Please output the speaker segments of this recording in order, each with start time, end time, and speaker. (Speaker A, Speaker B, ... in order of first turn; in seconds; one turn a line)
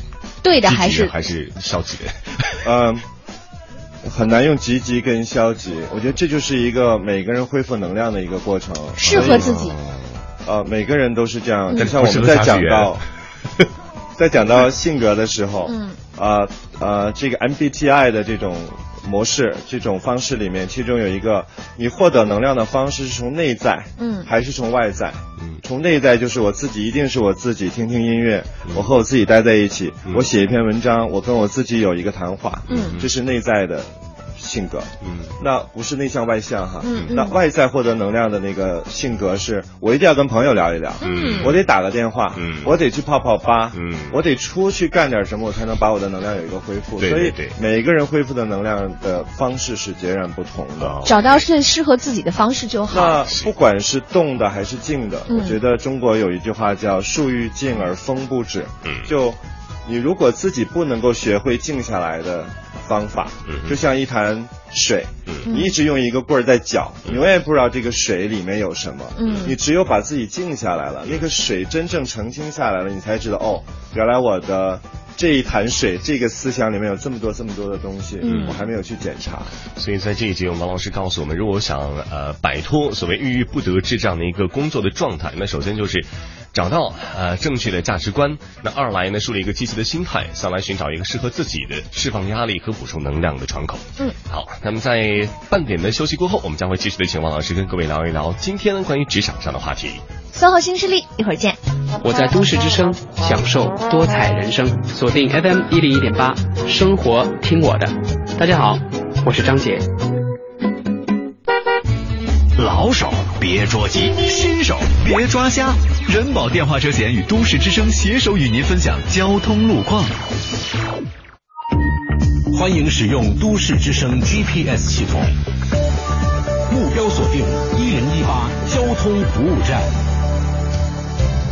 Speaker A: 0.4-1.1
Speaker B: 0.6-2.6
Speaker C: 2.6-3.0
Speaker C: 4.0-9.5
Speaker A: 9.0-9.7
Speaker B: 9.0-10.2
Speaker C: 10.4-13.0
Speaker B: 11.7-13.0
Speaker C: 14.2-51.0
Speaker A: 15.7-16.0
Speaker A: 24.0-24.3
Speaker A: 32.7-32.9
Speaker B: 32.7-33.1
Speaker B: 35.0-35.3
Speaker A: 36.8-37.3
Speaker A: 41.0-41.5
Speaker B: 41.0-41.6
Speaker B: 42.3-42.7
Speaker B: 43.7-44.2
Speaker B: 47.0-47.5
Speaker B: 50.8-51.4
Speaker A: 51.0-53.2
Speaker C: 52.9-79.5
Speaker A: 55.3-55.5
Speaker B: 63.5-63.8
Speaker A: 65.4-65.7
Speaker A: 69.2-69.5
Speaker B: 69.2-69.5
Speaker A: 78.2-78.6
Speaker B: 78.2-78.6
Speaker B: 79.7-100.0
Speaker A: 100.3-101.6
Speaker D: 102.0-109.8
Speaker E: 112.6-120.1
Speaker E: 122.5-125.3
Speaker E: 126.7-129.9